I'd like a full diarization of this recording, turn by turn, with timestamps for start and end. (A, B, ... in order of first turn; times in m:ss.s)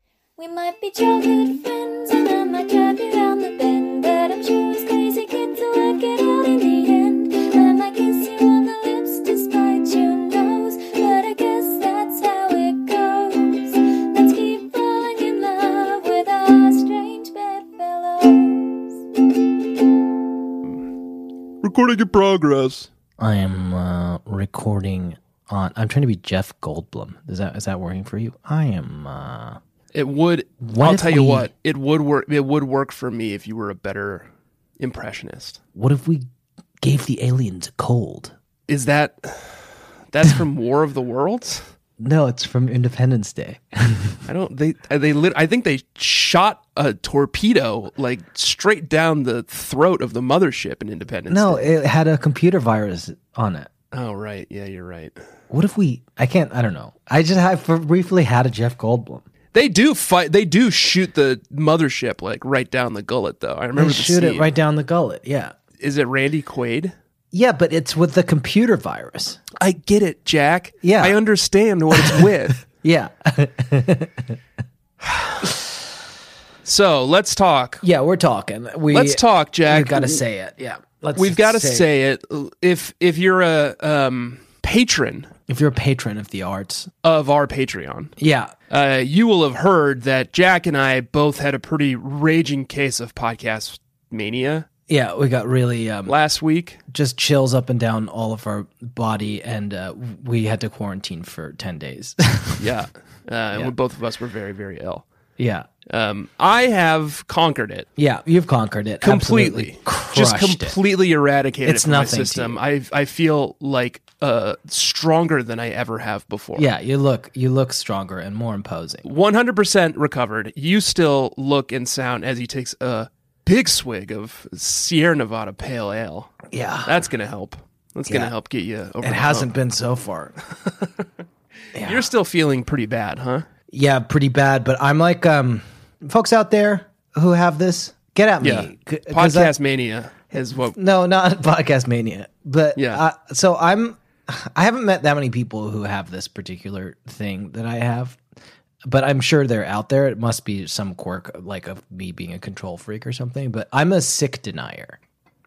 0:00.4-0:18.8 A
0:21.6-0:22.9 B
0:23.2-0:29.6 C
0:29.9-0:34.3 B
0:30.6-0:31.5 C
0:34.8-0:35.6 B
0:35.8-0:36.3 C
0:36.8-0:38.3 C
0:38.7-0:41.7 B
0:42.0-0:44.2 C
0:44.3-0:51.7 B
0:51.3-0:53.7 C
0:53.9-0:55.1 B
0:55.5-0:59.2 C
0:59.5-1:04.5 B
1:03.8-1:05.5 C
1:05.8-1:07.0 B
1:07.3-1:09.4 C
1:09.6-1:12.6 B
1:10.8-1:11.2 C
1:11.9-1:14.4 C
1:15.1-1:15.4 B
1:16.6-1:17.8 B
1:17.8-1:21.9 C
1:18.9-1:20.2 B
1:21.2-1:25.3 B
1:25.5-1:26.9 C
1:27.0-1:28.1 B
1:28.2-1:28.5 C
1:28.7-1:34.7 B
1:34.9-1:36.2 C
1:36.1-1:36.8 B
1:36.9-1:42.7 C
1:42.6-1:45.0 B
1:45.4-1:45.7 C
1:45.9-1:47.9 B
1:48.0-1:50.8 C
1:49.0-1:56.7 B
1:51.6-1:52.6 C
1:56.6-1:59.0 C
1:59.0-2:09.5 B
2:06.5-2:07.0 C
2:09.0-2:10.4 C
2:11.8-2:12.0 C
2:11.8-2:13.5 B
2:13.7-2:19.5 C
2:18.4-2:20.8 B
2:20.5-2:28.2 C
2:22.8-2:23.0 B
2:28.8-2:35.0 C